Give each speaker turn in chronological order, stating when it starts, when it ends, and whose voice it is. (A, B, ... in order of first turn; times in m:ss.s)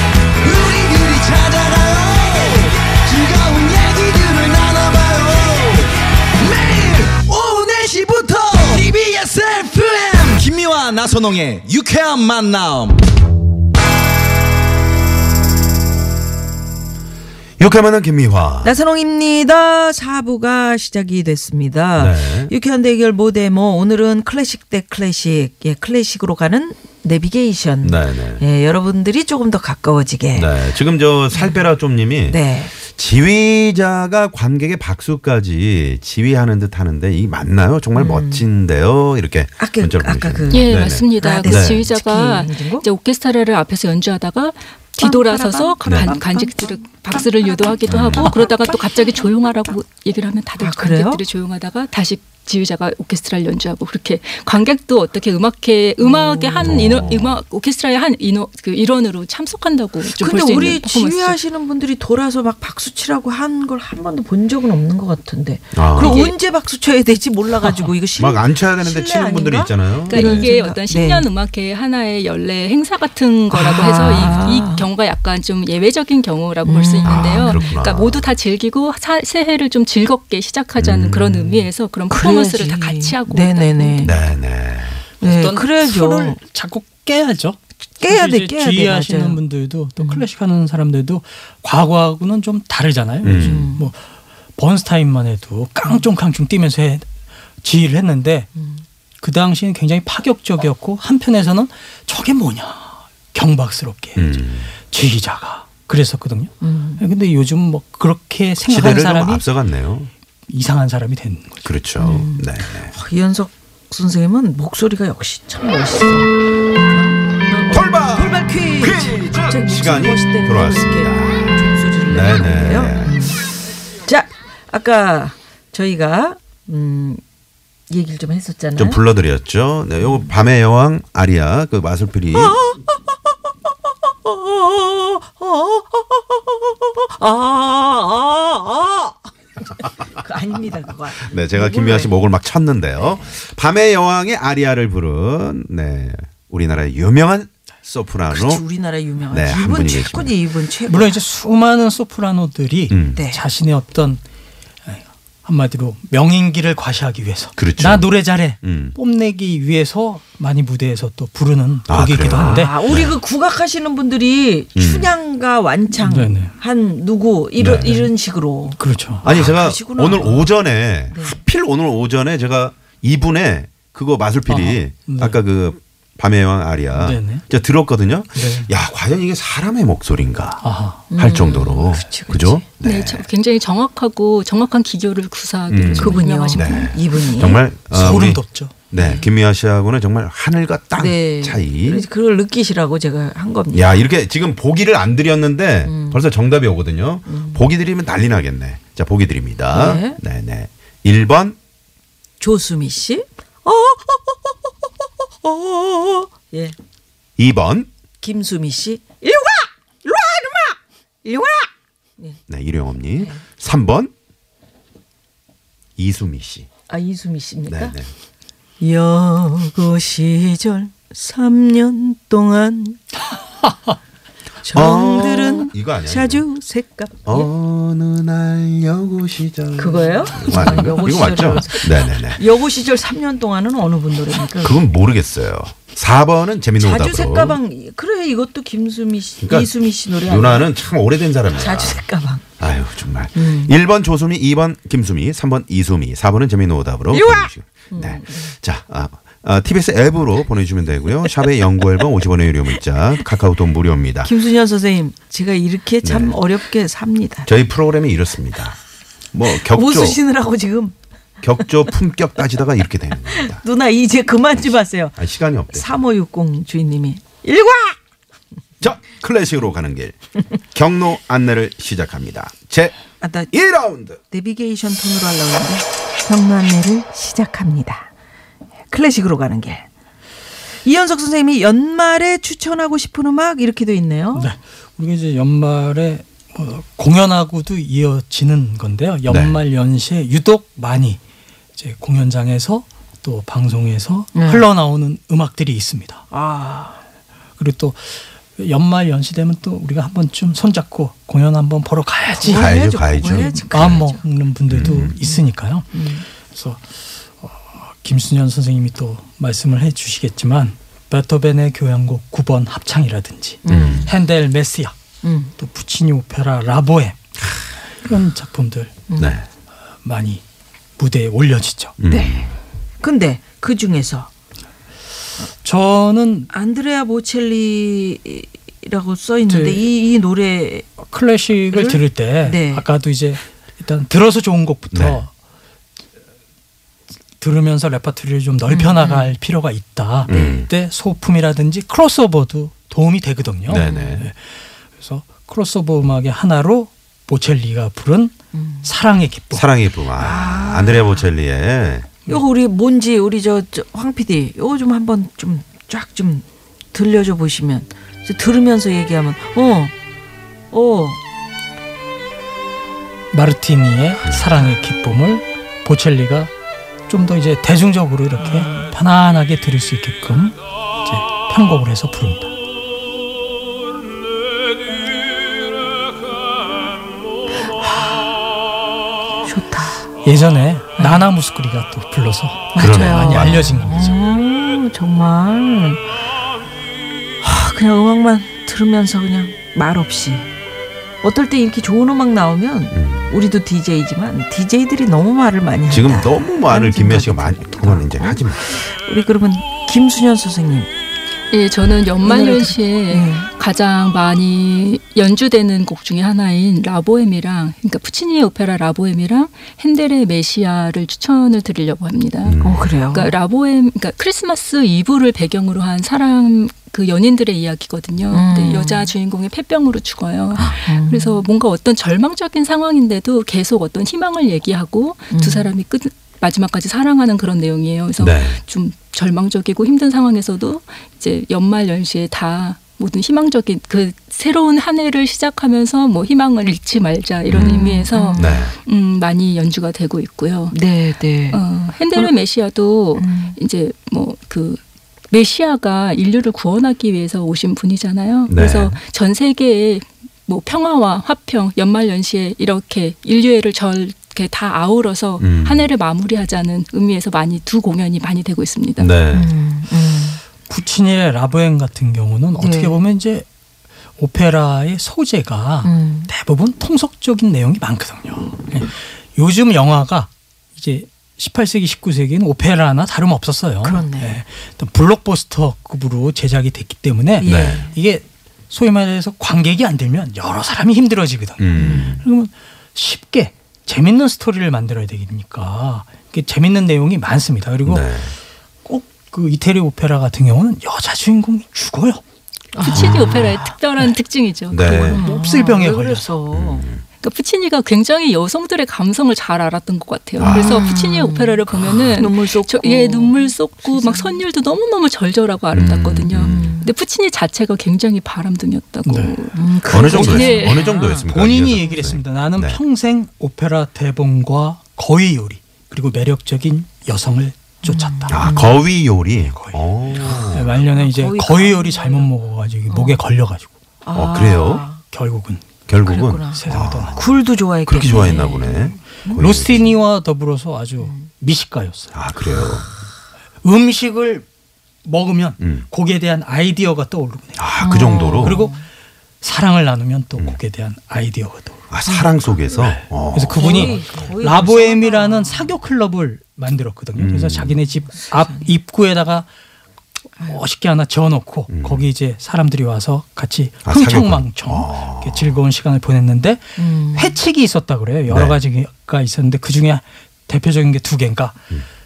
0:00.3-0:13.0 A
0:17.6-0:18.7 B
0:18.6-0:30.7 C
0:22.0-0:22.5 B
0:27.8-0:28.4 B
0:30.3-0:41.8 B
0:31.3-0:31.6 C
0:32.3-0:32.7 C
0:37.9-0:38.5 C
0:39.6-0:40.7 C
0:40.5-1:01.4 D
0:41.2-0:42.8 C
0:45.0-0:49.7 C
0:45.8-0:46.1 B
0:47.9-0:48.3 B
0:50.6-0:51.2 C
0:56.0-0:56.8 C
0:56.6-0:57.4 B
1:00.0-1:11.3 C
1:05.7-1:06.2 B
1:06.0-1:06.3 D
1:08.1-1:10.5 B
1:10.1-1:24.2 D
1:13.5-1:14.9 C
1:16.6-1:17.6 C
1:17.0-1:18.3 B
1:20.8-1:21.7 B
1:22.1-1:24.2 C
1:24.0-1:25.0 B
1:25.2-1:26.4 C
1:25.2-1:34.0 E
1:28.0-1:29.4 C
1:30.0-1:30.2 C
1:33.2-1:33.7 B
1:33.3-1:33.9 C
1:34.6-1:37.1 E
1:37.6-1:38.5 E
1:38.6-1:38.8 C
1:39.2-1:49.5 E
1:44.2-1:44.7 B
1:46.6-1:47.0 C
1:48.6-1:50.1 B
1:50.5-1:51.7 E
1:51.6-1:52.9 B
1:52.0-2:03.5 C
1:57.7-2:03.4 B
2:04.0-2:07.2 C
2:07.9-2:09.0 C
2:08.8-2:12.6 B
2:10.0-2:10.3 C
2:12.4-2:13.3 C
2:14.1-2:22.1 C
2:21.2-2:28.6 B
2:23.0-2:23.3 C
2:28.3-2:31.2 C
2:29.3-2:30.3 B
2:30.8-2:34.2 E
2:32.9-2:33.2 B
2:33.1-2:33.4 C
2:34.8-2:42.8 E
2:37.6-2:38.1 B
2:38.6-2:38.9 B
2:41.9-2:43.2 B
2:42.4-2:50.5 C
2:44.8-2:45.1 B
2:46.0-2:46.5 E
2:47.6-2:48.0 B
2:48.8-2:49.3 E
2:49.2-3:00.6 B
2:51.1-2:51.4 C
2:54.5-2:55.4 E
2:56.9-2:57.4 E
2:58.3-2:58.7 E
3:00.6-3:01.0 E
3:01.1-3:02.6 C
3:01.1-3:03.3 B
3:02.8-3:07.0 D
3:05.7-3:12.1 B
3:06.0-3:07.6 C
3:07.9-3:08.7 E
3:09.0-3:09.3 C
3:11.0-3:14.0 C
3:13.7-3:21.6 B
3:15.8-3:16.2 C
3:17.3-3:17.6 C
3:19.7-3:20.2 C
3:22.4-3:24.7 C
3:25.4-3:26.7 C
3:27.4-3:27.9 B
3:28.2-3:32.4 C
3:32.5-3:34.1 B
3:36.0-3:36.7 B
3:36.9-3:37.9 C
3:37.7-3:38.1 B
3:38.8-3:43.0 C
3:44.6-3:47.5 C
3:44.7-3:46.4 B
3:47.2-3:52.4 B
3:49.8-3:54.8 C
3:54.6-3:57.6 B
3:56.8-4:00.7 C
3:59.4-4:02.0 B
4:01.5-4:02.4 C
4:02.6-4:14.3 B
4:03.3-4:03.7 C
4:07.1-4:08.5 C
4:14.2-4:17.5 C
4:16.0-4:16.4 B
4:17.4-4:18.8 B
4:19.3-4:20.2 B
4:19.5-4:21.0 C
4:21.4-4:23.6 B
4:23.3-4:25.2 C
4:25.2-4:25.9 B
4:25.7-4:28.0 C
4:28.8-4:30.1 B
4:30.7-4:33.0 B
4:33.2-4:33.5 C
4:33.5-4:34.2 B
4:34.3-4:38.1 C
4:38.9-4:39.8 C
4:40.8-4:44.5 C
4:44.4-4:51.2 E
4:49.3-4:49.6 B
4:51.8-4:56.2 E
4:54.3-4:54.6 C
4:56.3-4:57.0 C
4:57.6-5:05.9 E
5:02.3-5:04.2 C
5:02.4-5:04.0 B
5:04.7-5:05.2 B
5:04.8-5:05.4 C
5:05.9-5:06.2 C
5:06.5-5:15.0 E
5:13.6-5:14.1 C
5:13.7-5:14.1 B
5:15.2-5:15.5 C
5:15.6-5:18.9 E
5:19.1-5:19.4 C
5:19.2-5:19.4 B
5:20.0-5:20.4 E
5:21.0-5:22.0 E
5:22.0-5:22.5 B
5:22.1-5:22.5 C
5:23.0-5:24.3 C
5:25.6-5:26.5 E
5:26.5-5:30.9 C
5:29.5-5:29.8 E
5:31.0-5:35.3 E
5:31.7-5:32.8 C
5:34.9-5:35.2 B
5:37.4-5:49.7 E
5:38.7-5:39.3 C
5:40.3-5:40.7 B
5:43.7-5:44.3 B
5:43.7-5:44.2 C
5:48.5-5:48.9 C
5:49.5-5:52.3 B
5:50.2-5:51.2 C
5:52.3-5:59.9 C
6:00.7-6:01.2 C
6:03.3-6:06.5 E
6:04.2-6:04.6 B
6:07.1-6:12.5 E
6:08.4-6:08.9 C
6:17.8-6:18.2 C
6:19.4-6:20.1 C
6:20.2-6:24.2 E
6:21.0-6:21.3 C
6:22.7-6:26.0 C
6:22.8-6:23.8 B
6:27.4-6:30.5 C
6:31.2-6:40.9 C
6:32.9-6:33.3 B
6:35.9-6:38.6 B
6:41.5-7:20.8 D
6:42.2-6:43.5 C
6:52.4-6:53.0 B
6:52.6-6:53.3 C
6:58.3-6:59.1 C
7:00.8-7:01.4 C
7:05.3-7:05.7 C
7:08.2-7:08.6 B
7:17.5-7:18.7 B
7:17.5-7:18.5 C
7:20.7-7:21.6 C
7:21.5-7:39.1 D
7:23.2-7:23.6 C
7:28.5-7:29.0 B
7:35.4-7:35.9 B
7:39.0-7:39.5 B
7:39.3-7:40.4 C
7:40.7-7:43.4 E
7:42.6-7:43.0 C
7:44.2-8:08.1 E
7:45.8-7:46.3 C
7:53.8-7:54.4 C
7:57.4-7:58.0 C
7:57.4-7:57.9 B
8:01.6-8:02.2 B
8:01.8-8:02.1 C
8:07.8-8:08.3 B
8:08.8-8:12.2 E
8:12.7-8:13.7 C
8:12.8-8:15.3 D
8:12.9-8:13.6 B
8:14.7-8:15.2 B
8:15.1-8:16.9 C
8:15.1-8:16.3 E
8:16.5-8:17.0 B
8:17.2-8:30.8 D
8:20.4-8:20.9 B
8:20.4-8:24.4 C
8:25.7-8:26.8 B
8:26.3-8:26.9 C
8:29.0-8:29.4 E
8:29.5-8:31.3 C
8:29.9-8:32.8 B
8:31.2-8:38.5 E
8:37.8-8:38.8 C
8:38.3-8:40.8 B
8:39.5-8:43.7 E
8:40.8-8:42.3 C
8:42.9-8:43.2 C
8:44.0-8:45.0 C
8:44.1-8:44.9 B
8:45.1-8:45.8 E
8:45.9-8:47.2 B
8:46.0-8:49.4 C
8:46.4-8:47.2 E
8:47.9-8:49.9 B
8:49.3-8:52.2 E
8:51.0-8:51.3 C
8:52.1-8:52.8 B
8:53.6-8:54.4 E
8:55.0-8:57.7 E
8:55.6-8:55.9 B
8:57.6-8:58.7 B
8:57.8-8:58.8 C
8:58.4-8:58.7 E
8:59.4-9:01.8 E
9:01.9-9:04.1 B
9:02.0-9:02.4 C
9:02.8-9:09.5 E
9:03.5-9:05.8 C
9:07.1-9:07.8 B
9:08.1-9:08.7 C
9:10.4-9:21.6 E
9:11.7-9:12.1 B
9:13.8-9:15.6 B
9:16.8-9:17.4 C
9:18.3-9:18.6 B